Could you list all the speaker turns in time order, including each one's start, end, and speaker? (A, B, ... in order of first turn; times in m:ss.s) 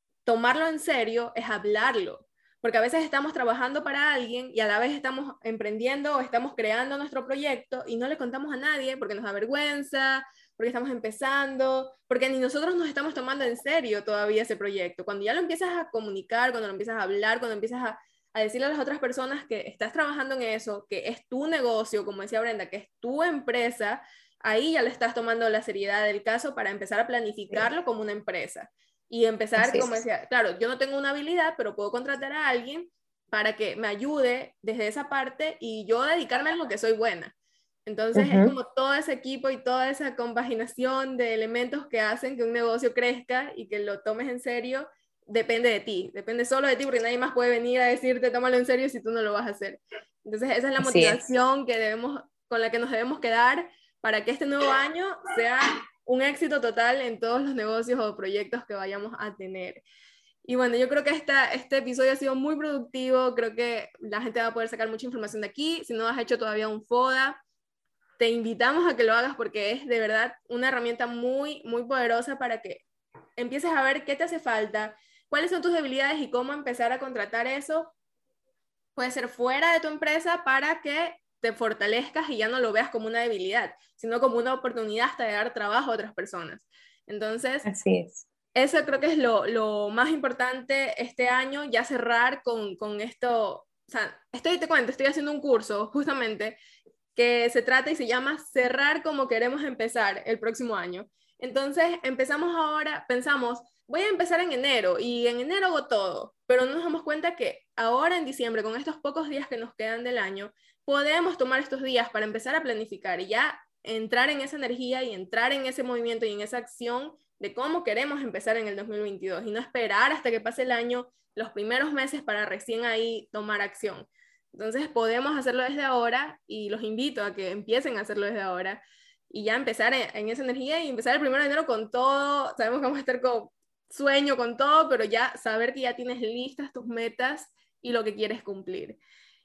0:00.3-0:37.3 A
0:29.6-0:30.0 B
0:37.9-0:59.8 A
0:38.2-0:38.5 B
0:50.8-0:51.2 B
1:00.5-1:07.4 A
1:08.2-1:12.8 A
1:13.4-1:17.9 A
1:19.0-1:27.7 A
1:27.6-1:28.2 B
1:28.6-1:36.6 A
1:37.2-2:19.0 A